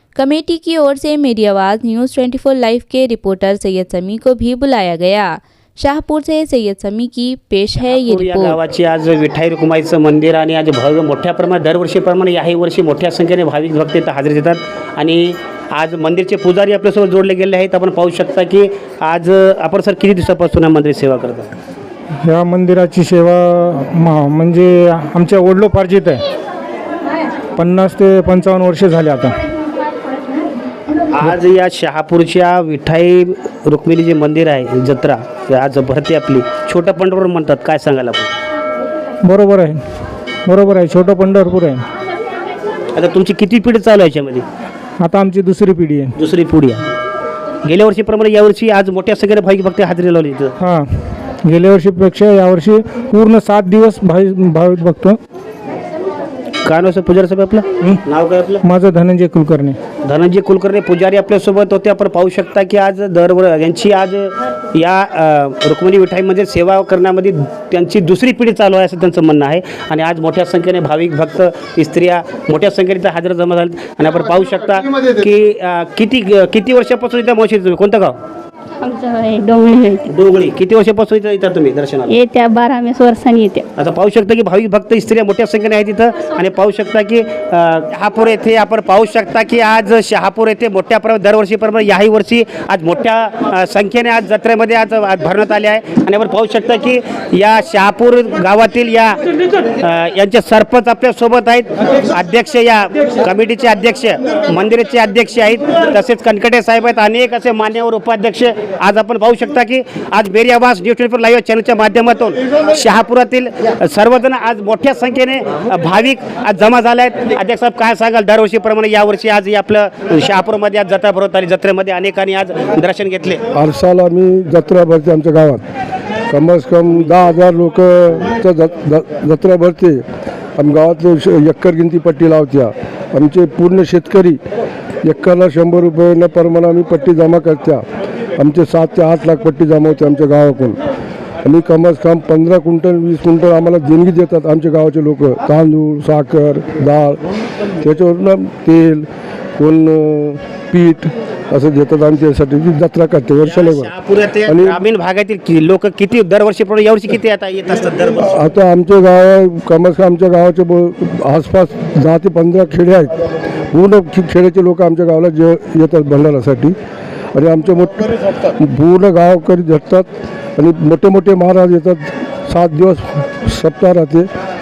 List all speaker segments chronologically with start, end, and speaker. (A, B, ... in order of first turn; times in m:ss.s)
0:00.2-0:08.6 A
0:07.8-0:21.5 B
0:22.2-0:26.2 C
0:27.6-0:29.4 C
0:31.1-0:38.3 B
0:39.2-0:39.8 C
0:40.4-0:41.8 C
0:43.0-0:44.4 B
0:45.0-0:46.1 C
0:46.2-0:46.8 B
0:47.6-0:50.5 B
0:50.6-0:55.2 C
0:56.6-0:58.6 B
0:58.6-0:59.8 C
1:00.0-1:18.2 B
1:18.8-1:20.0 D
1:20.1-1:22.2 B
1:22.1-1:23.6 D
1:23.8-1:39.2 B
1:39.8-2:03.4 B
2:03.5-2:05.6 E
2:06.3-2:10.0 E
2:10.6-2:14.4 E
2:15.0-2:17.8 E
2:18.4-2:20.8 E
2:21.4-2:27.2 E
2:27.8-2:29.0 E
2:29.6-2:33.9 E
2:33.4-2:38.4 B
2:34.4-2:34.8 E
2:38.3-2:43.1 E
2:43.7-2:46.7 E
2:47.3-2:54.3 E